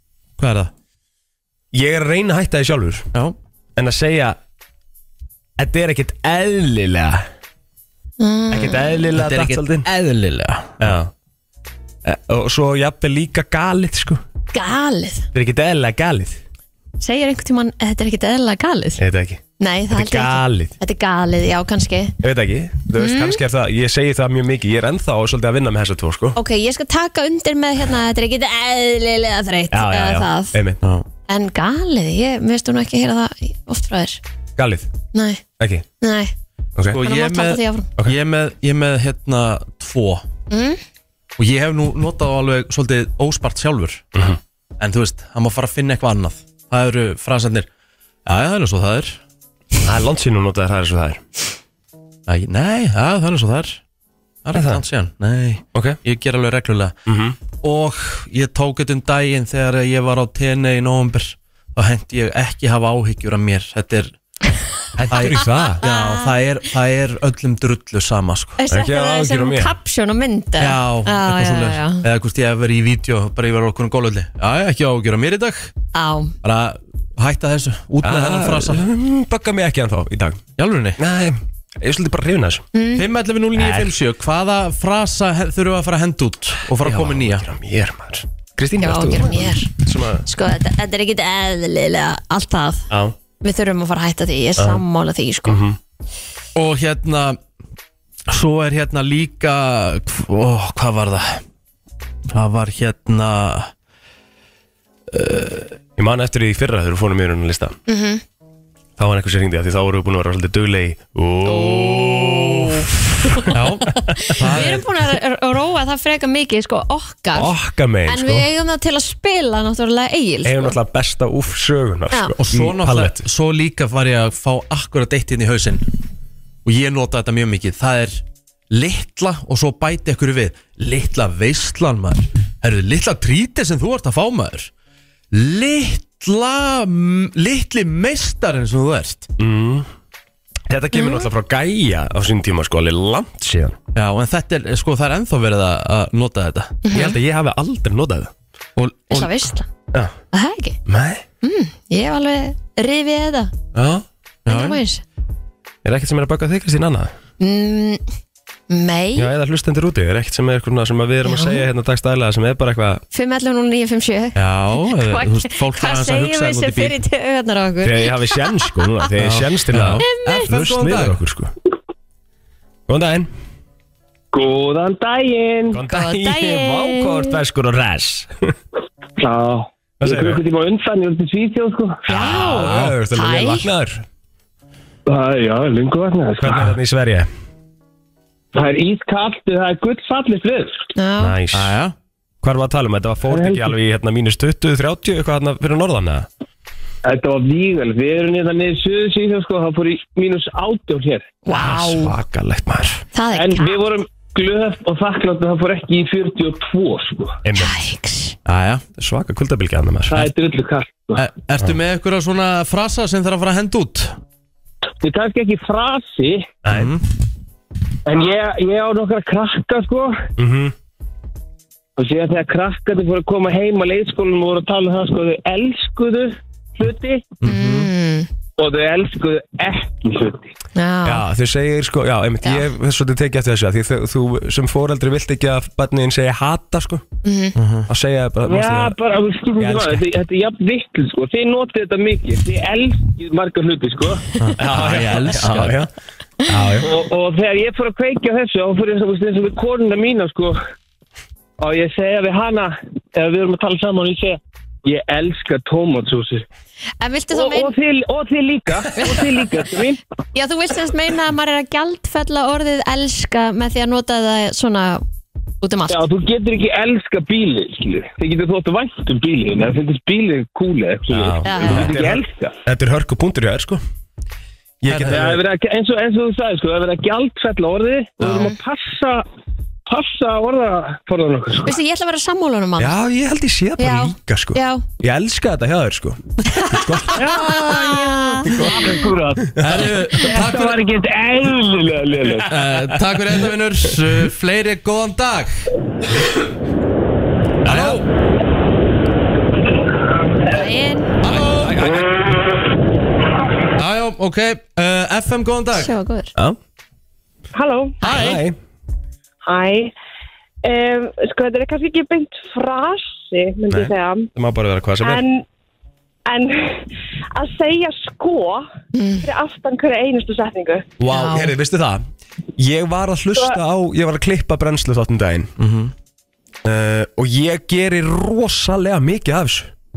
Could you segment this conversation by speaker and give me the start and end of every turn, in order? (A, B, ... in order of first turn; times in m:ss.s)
0:00.4-0:00.7 A
0:01.7-0:03.1 B
0:03.8-0:04.4 B
0:05.6-0:07.3 B
0:08.2-0:09.0 C
0:08.5-0:09.9 B
0:09.2-0:10.9 A
0:10.8-0:11.1 B
0:12.0-0:14.2 B
0:14.5-0:15.3 C
0:15.3-0:16.4 B
0:17.0-0:19.0 C
0:19.0-0:20.7 B
0:19.6-0:22.2 C
0:22.2-0:26.4 B
0:23.0-0:23.4 C
0:26.4-0:30.6 C
0:29.7-0:30.8 B
0:31.3-0:34.2 C
0:34.6-0:34.9 B
0:35.1-0:35.4 C
0:35.6-0:35.8 B
0:36.0-0:36.3 C
0:36.9-0:40.2 A
0:37.0-0:37.9 C
0:40.5-0:40.8 C
0:41.4-0:44.1 A
0:44.8-0:47.7 A
0:48.3-0:49.2 A
0:49.8-0:51.2 B
0:52.3-0:53.8 A
0:54.4-0:56.9 A
0:54.5-0:54.8 B
0:55.7-0:56.0 B
0:57.1-0:57.4 B
0:57.6-1:04.1 A
1:05.0-1:05.8 B
1:05.1-1:08.6 A
1:05.8-1:06.3 C
1:08.6-1:12.0 C
1:08.7-1:09.7 B
1:10.6-1:15.7 A
1:15.9-1:16.3 C
1:16.4-1:18.8 A
1:18.0-1:20.4 B
1:20.6-1:21.0 A
1:21.0-1:22.6 B
1:22.7-1:23.0 C
1:23.0-1:27.4 A
1:23.6-1:24.0 B
1:26.8-1:30.3 B
1:28.8-1:29.7 C
1:30.3-1:32.9 C
1:32.9-1:33.2 B
1:33.4-1:35.6 C
1:34.6-1:34.8 B
1:35.5-1:35.8 B
1:36.6-1:37.4 A
1:38.3-1:41.4 A
1:42.3-1:43.7 A
1:45.1-1:45.8 A
1:46.0-1:47.8 B
1:47.9-1:48.2 C
1:49.0-1:54.7 B
1:51.5-1:52.9 C
1:53.5-1:54.8 A
1:54.2-1:57.5 C
1:57.3-1:58.5 B
1:58.1-2:00.8 C
2:00.4-2:03.2 B
2:02.4-2:05.8 A
2:06.6-2:14.7 A
2:15.3-2:19.3 A
2:19.4-2:19.9 B
2:20.7-2:23.8 B
2:20.9-2:21.3 C
2:24.0-2:27.0 A
2:26.9-2:27.2 C
2:26.9-2:28.3 B
2:28.8-2:29.5 A
2:29.1-2:29.7 C
2:30.3-2:30.8 C
2:30.9-2:31.2 B
2:31.4-2:33.5 C
2:33.7-2:34.0 B
2:34.5-2:34.8 A
2:34.5-2:35.0 C
2:35.8-2:37.1 B
2:37.4-2:38.0 C
2:38.7-2:39.3 C
2:39.2-2:43.0 B
2:41.2-2:41.6 C
2:43.1-2:48.8 C
2:44.4-2:47.0 A
2:47.8-2:51.5 B
2:49.2-2:51.2 A
2:50.0-2:50.5 C
2:52.9-2:53.3 B
2:54.3-2:55.8 D
2:55.7-2:58.5 B
2:55.9-2:57.4 C
2:59.2-3:02.1 D
3:00.0-3:00.4 B
3:02.1-3:03.7 C
3:02.1-3:04.0 B
3:02.6-3:02.9 A
3:05.1-3:06.8 D
3:06.4-3:07.3 B
3:08.5-3:10.8 D
3:11.0-3:11.4 C
3:11.2-3:11.8 B
3:11.5-3:12.0 A
3:12.4-3:16.3 B
3:13.3-3:13.7 D
3:17.0-3:21.4 D
3:21.5-3:22.1 C
3:21.5-3:23.0 B
3:23.1-3:23.8 C
3:23.3-3:27.4 D
3:27.4-3:27.8 B
3:27.6-3:28.4 C
3:28.5-3:28.8 A
3:29.0-3:30.3 B
3:30.1-3:31.2 D
3:31.2-3:34.2 A
3:35.0-3:36.6 D
3:36.6-3:36.9 B
3:36.7-3:37.0 A
3:38.1-3:40.3 D
3:40.4-3:40.7 B
3:42.0-3:47.4 D
3:47.4-3:47.9 A
3:47.4-3:48.3 C
3:48.6-3:50.5 D
3:50.8-3:51.2 C
3:51.0-3:57.0 B
3:57.2-3:57.5 C
3:57.6-3:57.9 A
3:57.9-3:59.0 B
3:58.4-4:04.2 D
3:59.6-4:00.2 B
4:04.4-4:05.8 A
4:04.6-4:05.9 B
4:06.5-4:06.9 B
4:06.8-4:10.6 D
4:11.6-4:16.5 D
4:17.0-4:17.8 C
4:17.3-4:20.0 D
4:20.3-4:25.0 C
4:25.6-4:26.0 C
4:25.9-4:32.5 D
4:31.1-4:33.8 B
4:31.4-4:31.9 C
4:34.8-4:35.4 B
4:34.9-4:35.2 A
4:35.0-4:39.2 D
4:39.9-4:41.8 D
4:41.6-4:43.0 C
4:42.8-4:47.2 B
4:43.8-4:44.9 C
4:47.2-4:52.5 D
4:47.4-4:48.6 C
4:48.4-4:49.0 B
4:49.6-4:50.8 A
4:52.5-4:55.6 A
4:57.6-4:58.0 B
4:57.6-4:58.1 A
5:00.5-5:01.1 C
5:01.2-5:02.0 A
5:01.2-5:02.1 B
5:03.8-5:05.9 A
5:05.7-5:06.3 C
5:07.5-5:08.0 E
5:08.0-5:08.4 A
5:08.0-5:08.6 B
5:09.4-5:09.9 E
5:10.6-5:14.3 E
5:13.7-5:15.2 B
5:15.0-5:15.4 E
5:16.3-5:18.7 E
5:18.9-5:19.3 C
5:19.2-5:20.9 E
5:21.0-5:22.0 B
5:21.1-5:21.5 C
5:22.6-5:25.5 B
5:25.6-5:25.9 A
5:26.6-5:29.7 B